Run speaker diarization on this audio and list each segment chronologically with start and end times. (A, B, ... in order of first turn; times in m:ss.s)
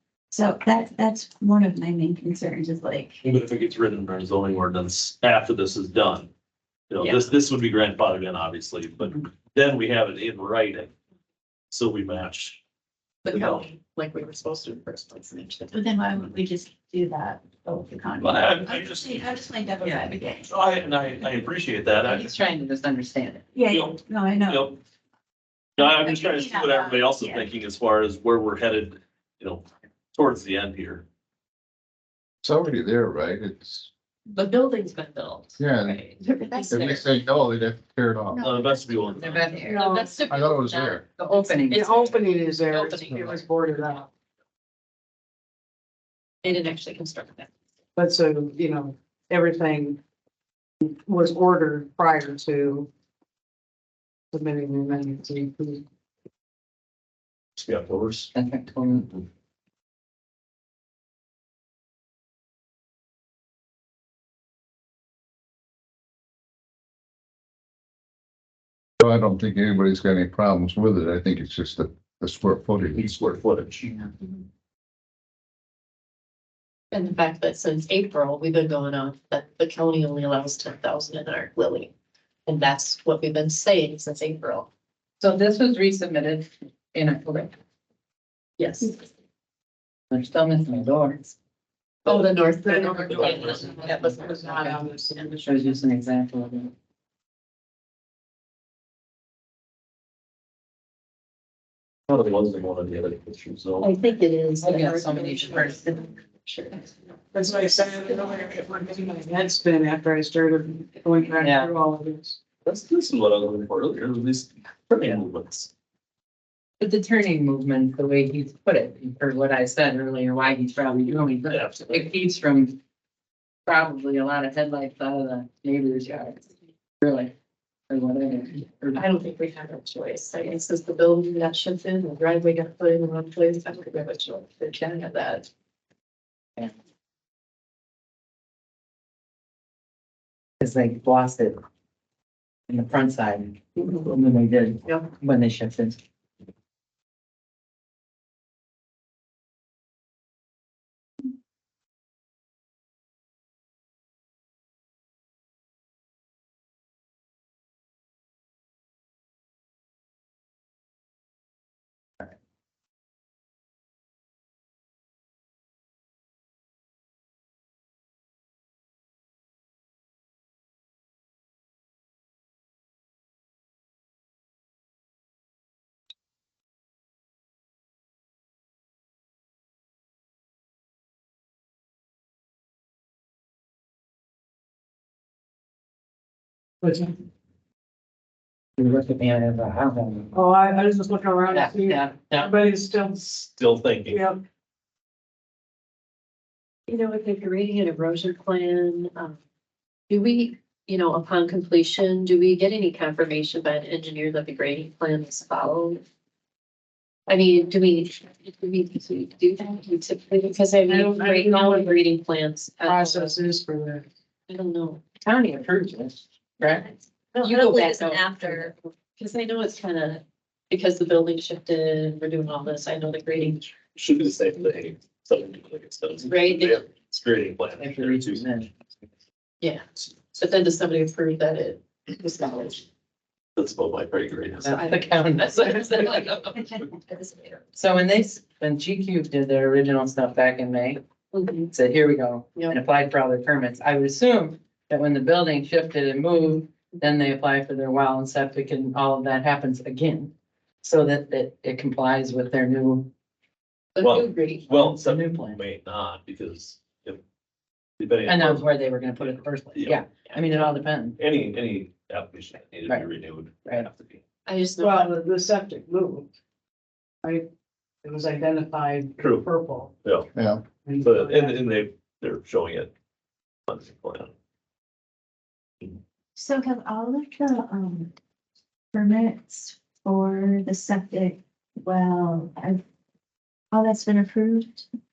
0:00.3-0:03.2 A
0:03.2-0:06.3 B
0:06.9-0:10.9 B
0:07.0-0:07.3 C
0:11.7-0:12.6 B
0:13.2-0:15.8 C
0:13.3-0:13.6 B
0:15.7-0:20.5 A
0:18.2-0:19.3 B
0:20.4-0:22.3 B
0:22.0-0:23.5 D
0:23.6-0:24.7 A
0:23.7-0:24.8 B
0:25.8-0:27.5 A
0:25.8-0:31.0 B
0:32.4-0:33.9 E
0:34.3-0:37.1 C
0:35.6-0:36.0 E
0:36.7-0:38.5 E
0:38.4-0:39.7 B
0:38.5-0:39.0 A
0:39.1-0:39.8 D
0:39.6-0:43.4 C
0:39.6-0:40.2 F
0:40.3-0:41.0 E
0:41.2-0:42.2 D
0:41.7-0:44.1 F
0:46.4-0:47.5 C
0:48.0-0:50.0 F
0:50.8-0:52.9 F
0:54.3-0:55.8 F
0:57.6-0:58.3 B
0:58.3-0:59.1 D
1:09.0-1:13.1 E
1:13.0-1:13.9 B
1:16.9-1:21.9 C
1:22.5-1:24.7 C
1:25.2-1:27.5 D
1:28.6-1:29.0 C
1:30.1-1:31.3 D
1:32.1-1:35.2 C
1:32.1-1:35.8 F
1:33.2-1:33.9 D
1:35.4-1:36.7 D
1:42.1-1:43.9 B
1:43.8-1:46.9 C
1:44.6-1:45.8 D
1:47.3-1:52.4 F
1:51.4-1:51.7 D
1:52.6-1:55.7 B
1:56.8-2:02.8 D
2:01.5-2:02.1 B
2:03.7-2:06.5 D
2:07.0-2:07.3 D
2:07.9-2:09.0 D
2:08.9-2:15.5 C
2:20.6-2:21.6 D
2:22.7-2:26.0 D
2:23.8-2:24.0 C
3:06.8-3:07.2 F
3:08.8-3:10.3 D
3:10.3-3:13.5 F
3:11.5-3:12.5 D
3:13.5-3:14.2 B
3:14.1-3:14.4 F
3:16.9-3:19.4 C
3:20.1-3:26.0 C
3:27.3-3:33.4 C
3:30.9-3:32.0 F
3:32.8-3:34.0 F
3:34.5-3:35.0 C
3:35.2-3:36.9 D
3:37.3-3:43.7 C
3:37.4-3:38.7 A
3:43.9-3:48.6 B
3:46.3-3:46.8 C
3:47.8-3:48.7 D
3:49.6-3:52.8 C
3:53.6-3:54.8 B
3:54.6-3:56.3 C
3:54.6-3:56.8 D
3:57.2-3:57.5 C
3:57.8-4:01.0 D
4:01.3-4:01.7 C
4:01.7-4:13.1 D
4:14.0-4:14.6 C
4:14.0-4:17.2 B
4:14.7-4:15.6 D
4:18.0-4:20.0 B
4:18.2-4:21.2 D
4:20.3-4:20.7 C
4:21.2-4:24.2 B
4:24.5-4:25.1 C
4:24.8-4:26.3 F
4:27.2-4:27.5 F
4:28.0-4:29.9 F
4:29.2-4:29.4 B
4:30.3-4:30.6 E
4:30.8-4:31.7 F
4:31.0-4:32.9 B
4:33.7-4:34.3 B
4:36.4-4:38.1 A
4:38.9-4:42.8 A
4:43.7-4:44.9 A